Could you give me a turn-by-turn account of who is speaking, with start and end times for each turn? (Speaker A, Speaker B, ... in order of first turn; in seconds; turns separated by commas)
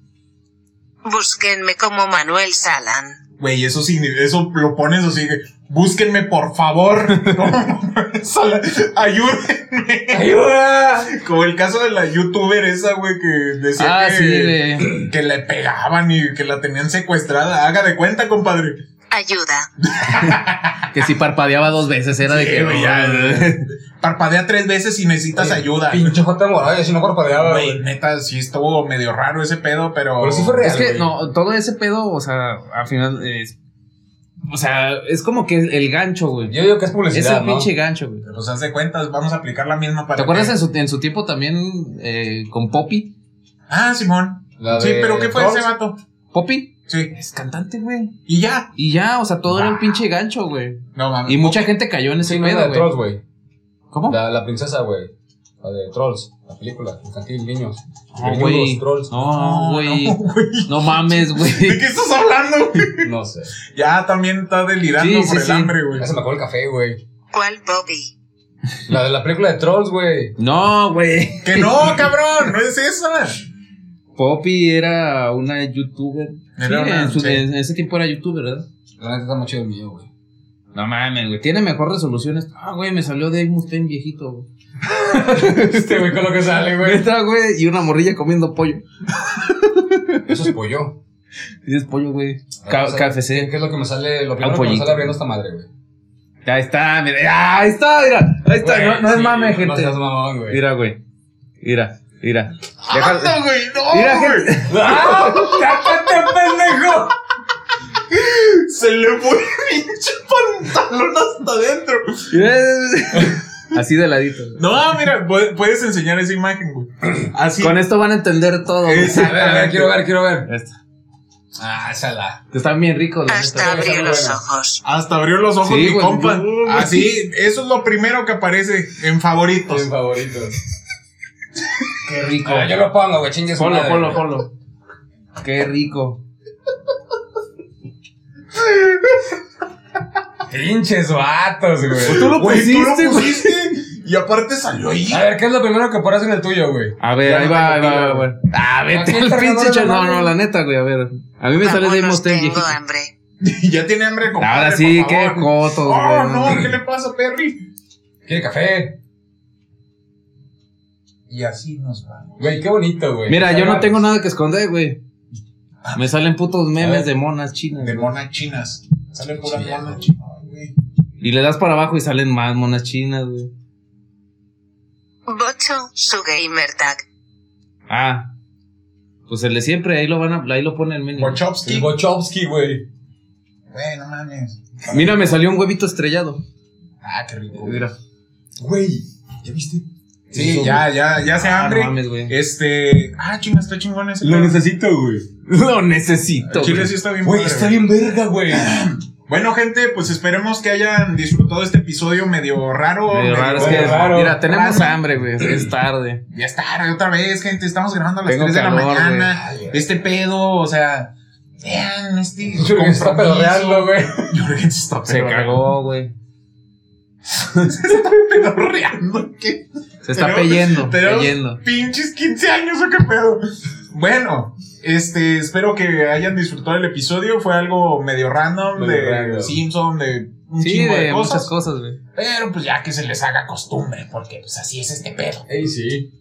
Speaker A: 1.0-3.2, Speaker B: 3.4-18.8, Speaker C: 10.1-11.1, Speaker D: 13.8-15.0, Speaker A: 19.1-19.7, Speaker B: 19.9-20.9, Speaker D: 20.9-23.7, Speaker B: 22.3-26.2, Speaker C: 25.3-27.8, Speaker B: 27.3-30.6, Speaker C: 30.2-31.1, Speaker D: 30.6-33.5, Speaker D: 34.5-36.5, Speaker C: 36.5-37.7, Speaker D: 37.1-38.2, Speaker B: 38.2-40.6, Speaker D: 40.1-43.1, Speaker B: 43.7-46.0, Speaker C: 44.6-45.7, Speaker D: 46.3-48.2, Speaker B: 48.3-48.7, Speaker D: 48.8-52.9, Speaker B: 51.0-51.7, Speaker C: 52.2-53.2, Speaker D: 53.9-54.2, Speaker C: 54.1-55.1, Speaker C: 55.6-59.1, Speaker D: 58.2-61.8, Speaker B: 59.2-63.1, Speaker C: 63.0-63.5, Speaker B: 63.7-66.1, Speaker D: 65.0-65.8, Speaker C: 65.9-67.0, Speaker A: 67.3-68.1, Speaker C: 68.9-70.3, Speaker D: 70.4-72.1, Speaker B: 71.4-73.4, Speaker D: 74.2-78.7, Speaker B: 76.6-77.4, Speaker C: 79.0-80.1, Speaker D: 80.7-84.5, Speaker C: 84.9-87.1, Speaker D: 85.1-90.2, Speaker C: 90.3-91.0, Speaker D: 91.7-93.5, Speaker C: 92.6-95.7, Speaker D: 94.4-95.2, Speaker D: 96.5-101.0, Speaker C: 98.6-100.6, Speaker D: 101.6-105.7, Speaker B: 102.9-104.5, Speaker C: 104.7-107.2, Speaker B: 108.1-112.3, Speaker D: 112.3-114.7, Speaker B: 114.6-117.8, Speaker D: 117.6-119.6, Speaker B: 118.8-120.0, Speaker C: 119.0-120.5, Speaker D: 120.5-120.8, Speaker C: 121.6-122.4, Speaker D: 122.5-124.0, Speaker A: 123.3-124.8, Speaker C: 123.5-124.4, Speaker B: 124.8-129.9, Speaker D: 125.6-127.1, Speaker C: 129.7-130.5, Speaker D: 132.0-132.7, Speaker C: 132.4-134.3, Speaker D: 133.6-134.5, Speaker D: 135.4-136.2, Speaker C: 140.5-142.3, Speaker D: 142.0-143.7, Speaker B: 142.1-145.3, Speaker C: 145.1-147.0, Speaker D: 147.0-152.8, Speaker B: 147.2-148.2, Speaker C: 148.9-150.3, Speaker A: 151.6-153.1, Speaker B: 153.4-157.6, Speaker D: 154.4-156.7, Speaker C: 158.3-159.0, Speaker B: 161.3-162.6, Speaker C: 162.4-164.1, Speaker D: 163.3-165.0, Speaker B: 165.8-166.1, Speaker D: 165.9-168.1, Speaker C: 166.8-167.1, Speaker B: 167.8-170.7, Speaker C: 169.4-170.0, Speaker D: 171.2-173.5, Speaker A: 175.3-177.0, Speaker D: 177.9-178.3, Speaker D: 179.3-181.4, Speaker B: 181.2-181.9, Speaker C: 181.6-182.8, Speaker B: 183.7-184.9, Speaker D: 184.9-186.4, Speaker B: 187.0-187.9, Speaker D: 187.5-187.9, Speaker C: 188.6-190.7, Speaker D: 190.3-192.3, Speaker B: 190.3-194.6, Speaker C: 194.2-195.3, Speaker D: 195.5-196.9, Speaker B: 196.4-197.8, Speaker C: 197.2-198.9, Speaker B: 198.5-205.0, Speaker D: 203.1-206.2, Speaker C: 203.6-204.4, Speaker B: 206.3-215.7, Speaker D: 208.3-209.3, Speaker C: 209.3-209.8, Speaker C: 212.5-214.3, Speaker D: 215.1-216.1, Speaker B: 217.3-231.5, Speaker D: 220.1-221.6, Speaker C: 228.7-229.6, Speaker D: 230.6-232.0, Speaker B: 232.1-235.5, Speaker C: 235.5-236.1